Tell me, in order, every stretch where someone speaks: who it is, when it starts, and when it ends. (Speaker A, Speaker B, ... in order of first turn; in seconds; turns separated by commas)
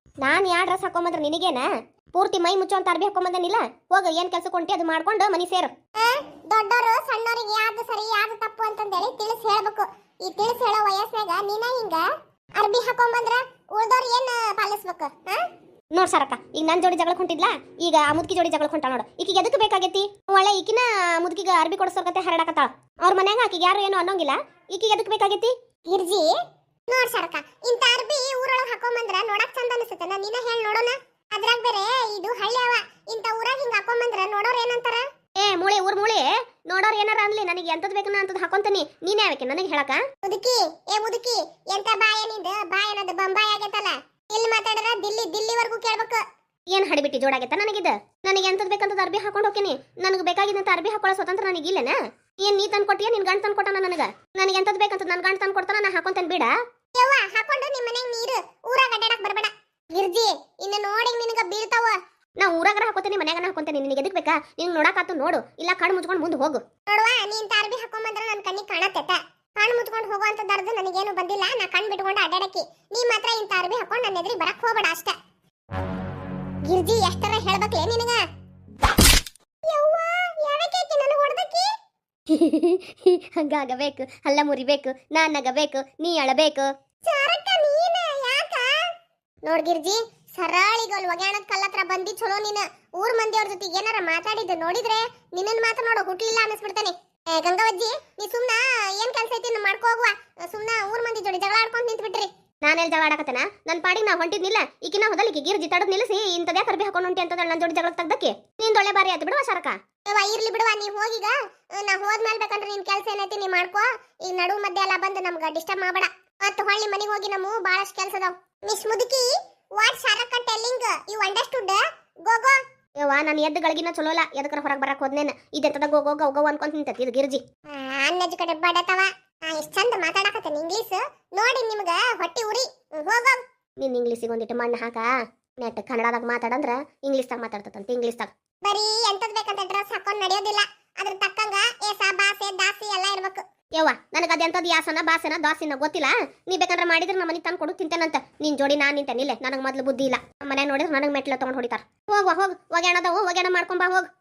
Speaker A: 0.2-5.7, Speaker B: 6.0-12.1, Speaker B: 12.6-15.4, Speaker A: 15.9-25.5, Speaker B: 25.9-26.3, Speaker B: 26.9-35.0, Speaker A: 35.4-40.0, Speaker B: 40.2-46.2, Speaker A: 46.7-56.5, Speaker B: 57.0-62.0, Speaker A: 62.4-66.6, Speaker B: 66.9-75.1, Speaker B: 76.7-78.2, Speaker B: 79.7-81.7, Speaker A: 82.3-82.7, Speaker A: 83.3-86.7, Speaker B: 87.1-88.8, Speaker B: 89.5-102.3, Speaker A: 102.6-109.8, Speaker B: 110.1-122.6, Speaker A: 123.0-127.4, Speaker B: 127.7-133.4, Speaker A: 133.8-138.3, Speaker B: 138.6-143.4, Speaker A: 143.8-154.1